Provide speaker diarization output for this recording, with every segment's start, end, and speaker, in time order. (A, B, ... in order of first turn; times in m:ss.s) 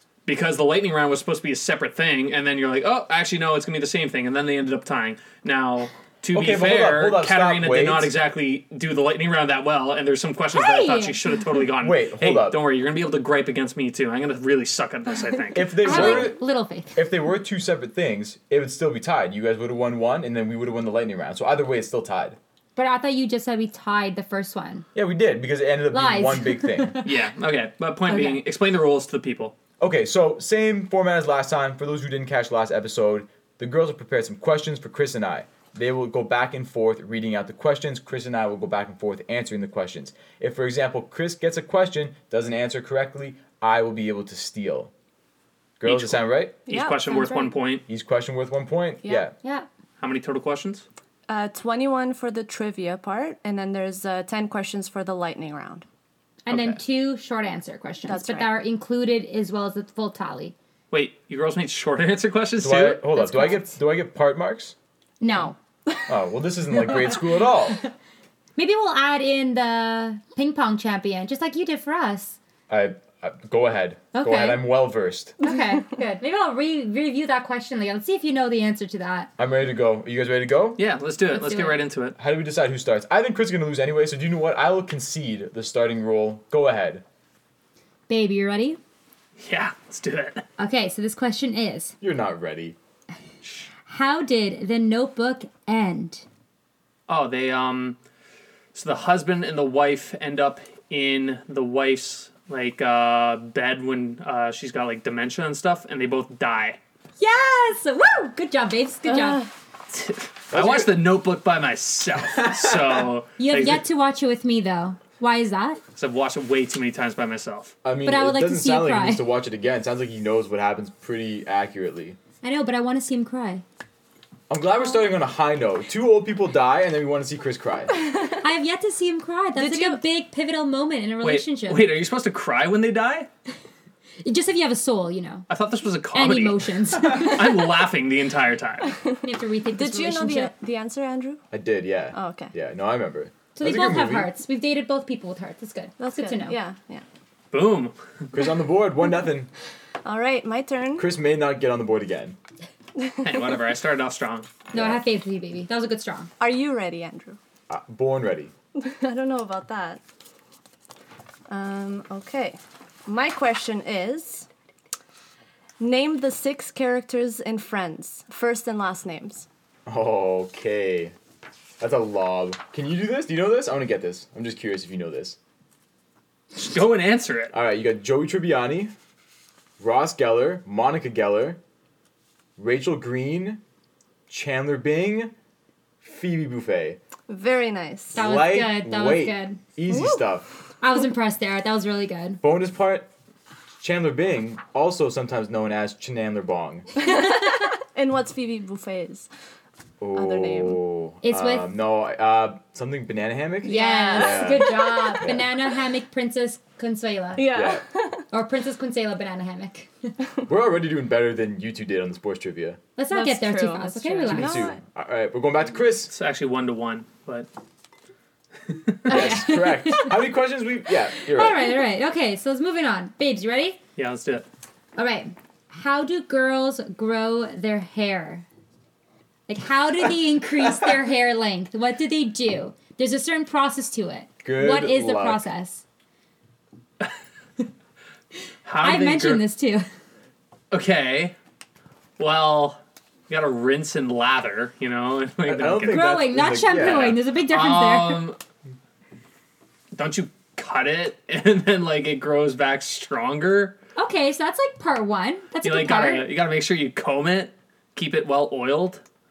0:00.3-0:16.3 A
0:06.3-0:08.1 B
0:10.5-0:11.2 C
0:11.8-0:12.6 B
0:15.5-0:16.4 B
0:15.8-0:17.0 C
0:17.0-0:22.4 B
0:22.8-0:24.9 C
0:25.0-0:27.0 B
0:25.9-0:27.1 C
0:27.0-0:29.6 A
0:28.1-0:28.4 C
0:29.8-0:44.9 B
0:45.8-0:46.6 B
0:45.8-0:47.8 A
0:46.7-0:47.3 D
0:47.1-0:47.5 C
0:47.9-0:49.4 B
0:50.0-0:50.8 A
0:51.3-0:55.9 D
0:56.5-1:00.5 C
0:56.5-0:56.8 A
0:58.1-0:58.5 D
1:00.9-1:03.1 A
1:02.6-1:04.8 B
1:05.2-1:05.6 C
1:06.1-1:07.8 B
1:08.6-1:12.4 C
1:12.7-1:15.4 B
1:14.1-1:14.7 C
1:15.4-1:19.3 C
1:19.4-1:20.8 B
1:20.8-1:22.2 A
1:21.3-1:21.8 C
1:22.2-1:27.0 B
1:28.1-1:28.8 C
1:29.4-1:30.4 A
1:30.6-1:32.0 C
1:32.0-1:32.8 B
1:33.9-1:36.2 C
1:37.1-1:38.0 A
1:38.7-1:46.8 A
1:47.2-1:49.5 C
1:49.1-1:49.5 D
1:49.9-1:53.8 A
1:50.5-1:51.0 B
1:52.2-1:53.1 B
1:53.4-1:55.8 C
1:56.0-1:57.8 A
1:57.8-2:02.2 B
1:58.0-1:59.3 C
2:02.4-2:03.6 C
2:04.5-2:07.9 B
2:08.0-2:08.4 D
2:08.4-2:11.9 C
2:09.6-2:10.0 D
2:11.2-2:13.3 A
2:14.2-2:15.5 C
2:15.5-2:19.0 A
2:16.1-2:17.7 C
2:19.2-2:20.5 C
2:19.8-2:21.4 D
2:21.5-2:24.3 B
2:22.1-2:22.5 D
2:23.6-2:26.6 C
2:26.0-2:27.0 D
2:27.5-2:28.0 A
2:28.3-2:29.5 B
2:30.0-2:31.1 D
2:31.0-2:32.4 B
2:33.0-2:33.5 D
2:33.1-2:34.6 A
2:34.7-2:36.3 C
2:34.7-2:35.0 B
2:36.4-2:37.4 D
2:37.7-2:38.5 B
2:38.8-2:40.0 D
2:41.5-2:44.5 D
2:45.8-2:49.5 D
2:49.9-2:51.2 B
2:51.8-2:55.4 B
2:56.6-2:57.5 A
2:57.5-2:58.9 B
2:59.8-3:01.6 B
3:02.6-3:03.6 B
3:04.3-3:05.3 B
3:06.0-3:07.0 B
3:07.3-3:08.2 D
3:08.1-3:10.5 B
3:08.2-3:09.6 C
3:09.9-3:10.3 D
3:10.8-3:12.4 C
3:12.4-3:13.1 B
3:13.8-3:16.9 B
3:17.0-3:19.3 D
3:20.0-3:25.5 B
3:20.2-3:20.8 D
3:21.2-3:21.7 C
3:23.6-3:27.5 C
3:23.7-3:25.3 D
3:27.4-3:28.2 D
3:27.5-3:27.8 B
3:28.3-3:29.9 C
3:30.5-3:32.8 B
3:33.0-3:34.7 C
3:33.1-3:34.8 D
3:34.3-3:36.1 B
3:36.1-3:37.5 A
3:38.7-3:39.0 A
3:39.1-3:40.2 C
3:39.1-3:41.7 B
3:39.1-3:39.4 D
3:41.3-3:43.8 C
3:44.0-3:44.4 A
3:45.0-3:48.5 C
3:49.5-3:55.8 C
3:54.4-3:55.4 B
3:58.6-3:59.4 A
3:58.8-3:59.9 C
4:00.7-4:01.4 A
4:02.2-4:02.8 A
4:03.3-4:06.0 A
4:05.4-4:07.2 B
4:05.9-4:08.2 C
4:07.5-4:08.4 A
4:09.9-4:13.8 A
4:14.0-4:16.3 C
4:15.6-4:19.0 A